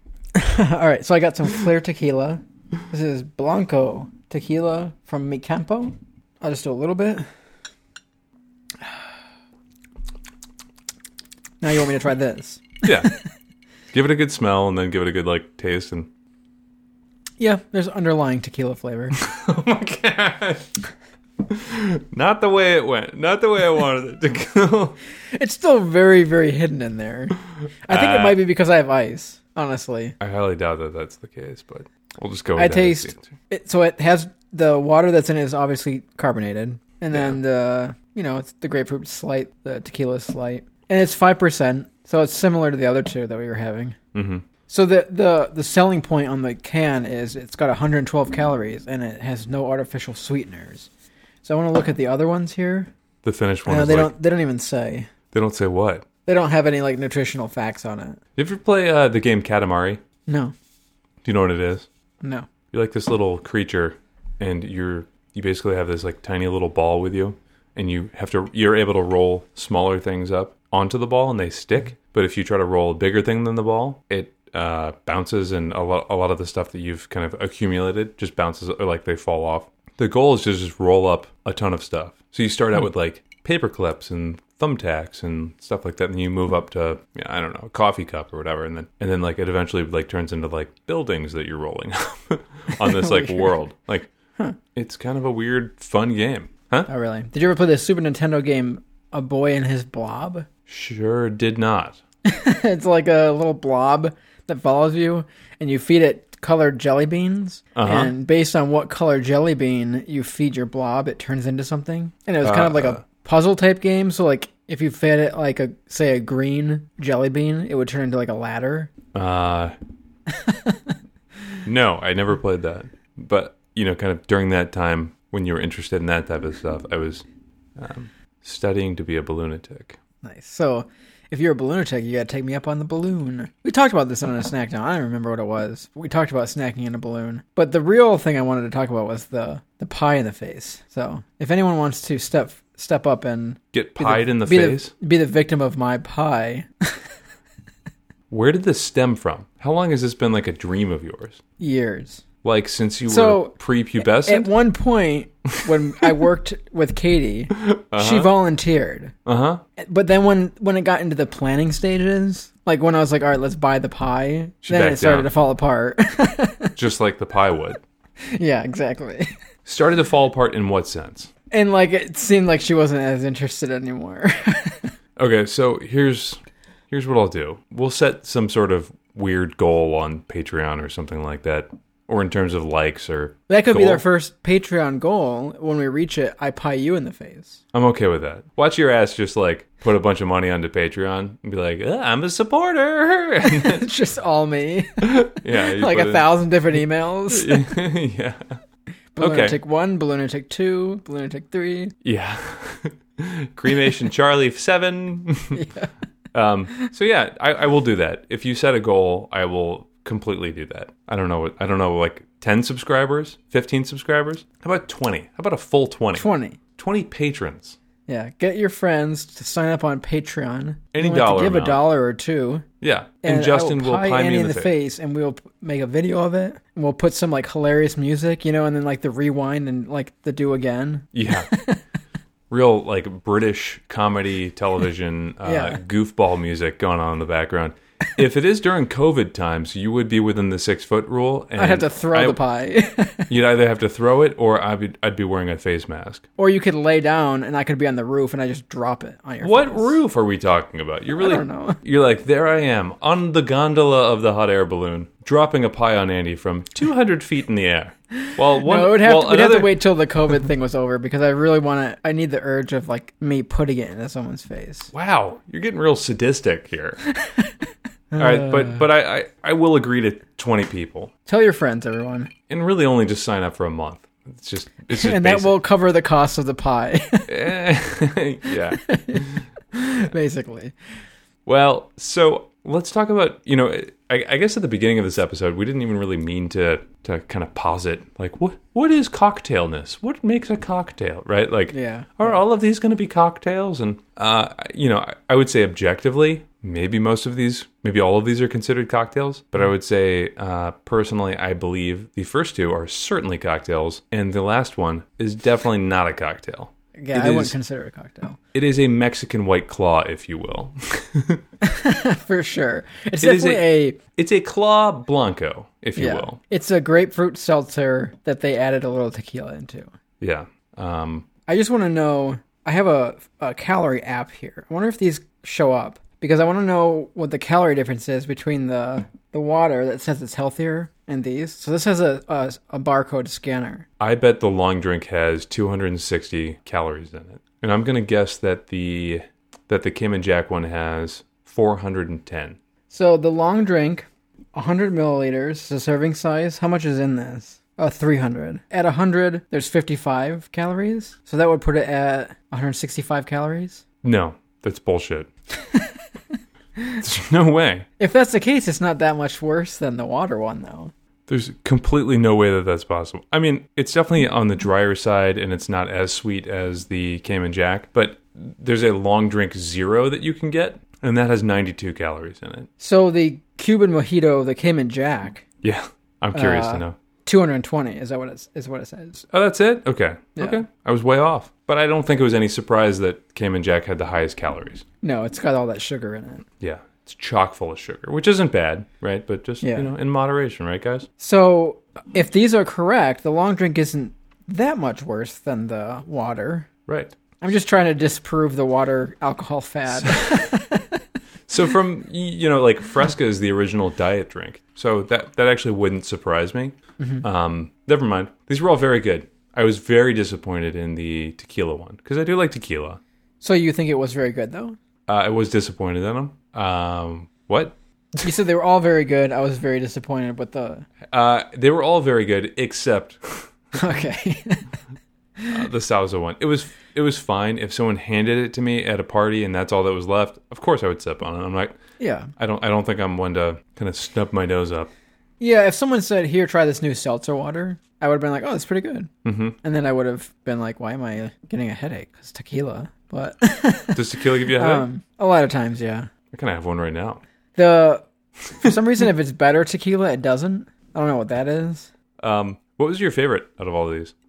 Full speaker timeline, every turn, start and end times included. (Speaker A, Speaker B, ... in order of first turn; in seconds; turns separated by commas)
Speaker A: 0.3-7.2, Speaker A: 11.6-13.2, Speaker B: 12.8-13.1, Speaker B: 13.9-16.1, Speaker A: 17.4-19.2, Speaker B: 19.2-20.7, Speaker B: 21.4-25.0, Speaker A: 25.3-30.1, Speaker B: 27.9-28.4, Speaker B: 30.2-33.3, Speaker A: 32.6-44.0, Speaker B: 37.1-37.4, Speaker B: 44.1-44.5, Speaker A: 44.7-50.9, Speaker A: 51.4-52.9, Speaker B: 53.2-54.1, Speaker A: 53.7-55.1, Speaker B: 55.3-56.1, Speaker A: 56.3-58.2, Speaker B: 58.4-60.0, Speaker A: 60.3-60.5, Speaker B: 61.2-61.9, Speaker A: 62.2-62.5, Speaker B: 62.7-94.1, Speaker A: 92.8-93.5, Speaker B: 94.8-96.9, Speaker A: 96.9-100.5, Speaker B: 100.7-102.0, Speaker A: 102.2-118.9, Speaker B: 107.8-108.1, Speaker B: 112.4-113.0, Speaker B: 119.1-119.7, Speaker A: 120.3-120.8, Speaker B: 121.6-127.2, Speaker B: 127.8-130.0, Speaker A: 130.2-147.0, Speaker B: 143.7-144.9, Speaker B: 148.3-151.4, Speaker A: 151.6-152.2, Speaker B: 152.4-154.5, Speaker A: 153.1-159.2, Speaker B: 157.6-158.3, Speaker B: 159.3-159.6, Speaker A: 159.8-166.8, Speaker B: 164.6-165.3, Speaker B: 166.8-167.8, Speaker A: 168.3-169.3, Speaker B: 169.7-171.3, Speaker A: 171.5-174.9, Speaker B: 175.2-184.0, Speaker A: 183.5-187.6, Speaker B: 187.7-193.8, Speaker A: 193.4-197.7, Speaker B: 195.0-196.8, Speaker B: 197.3-198.6, Speaker A: 199.2-201.9, Speaker B: 199.2-199.6, Speaker B: 202.0-205.7, Speaker A: 205.5-205.9, Speaker B: 206.3-217.8, Speaker A: 216.1-216.6, Speaker A: 218.1-222.7, Speaker B: 220.9-221.8, Speaker B: 222.8-224.7, Speaker A: 223.2-231.8, Speaker B: 231.1-231.5, Speaker B: 232.5-242.4, Speaker A: 235.4-235.8, Speaker A: 241.6-243.3, Speaker B: 243.3-246.2, Speaker A: 246.4-250.0, Speaker B: 249.4-259.8, Speaker A: 251.2-251.8, Speaker A: 258.3-264.9, Speaker B: 264.9-267.0, Speaker A: 268.1-268.8, Speaker B: 268.2-271.1, Speaker A: 271.3-272.3, Speaker B: 272.5-275.6, Speaker A: 274.9-277.4, Speaker B: 277.3-279.4, Speaker A: 278.8-280.7, Speaker B: 281.5-307.6, Speaker A: 291.7-292.2, Speaker A: 306.9-308.4, Speaker B: 308.5-311.4, Speaker A: 311.6-314.0, Speaker B: 313.2-316.4, Speaker A: 316.0-319.9, Speaker B: 320.2-321.3, Speaker A: 321.5-333.9, Speaker B: 334.0-342.6, Speaker A: 342.9-353.8, Speaker B: 354.0-355.3, Speaker B: 357.0-357.9, Speaker A: 358.0-360.9, Speaker B: 361.3-372.7, Speaker A: 372.8-375.4, Speaker B: 375.6-376.9, Speaker A: 376.4-379.3, Speaker B: 379.3-384.9, Speaker A: 385.0-386.4, Speaker B: 386.6-391.1, Speaker A: 389.6-389.9, Speaker A: 391.2-396.7, Speaker B: 396.9-397.1, Speaker A: 397.4-401.0, Speaker B: 400.0-400.4, Speaker B: 401.5-413.0, Speaker A: 407.0-407.2, Speaker A: 413.4-414.8, Speaker B: 415.1-418.3, Speaker A: 418.2-420.9, Speaker B: 421.1-423.5, Speaker A: 423.7-424.7, Speaker B: 425.5-431.8, Speaker A: 432.0-432.3, Speaker B: 432.4-434.9, Speaker A: 435.4-439.1, Speaker B: 439.2-439.6, Speaker A: 439.6-446.1, Speaker B: 443.9-444.9, Speaker B: 446.3-447.2, Speaker A: 447.6-448.1, Speaker A: 448.6-451.9, Speaker B: 452.2-454.1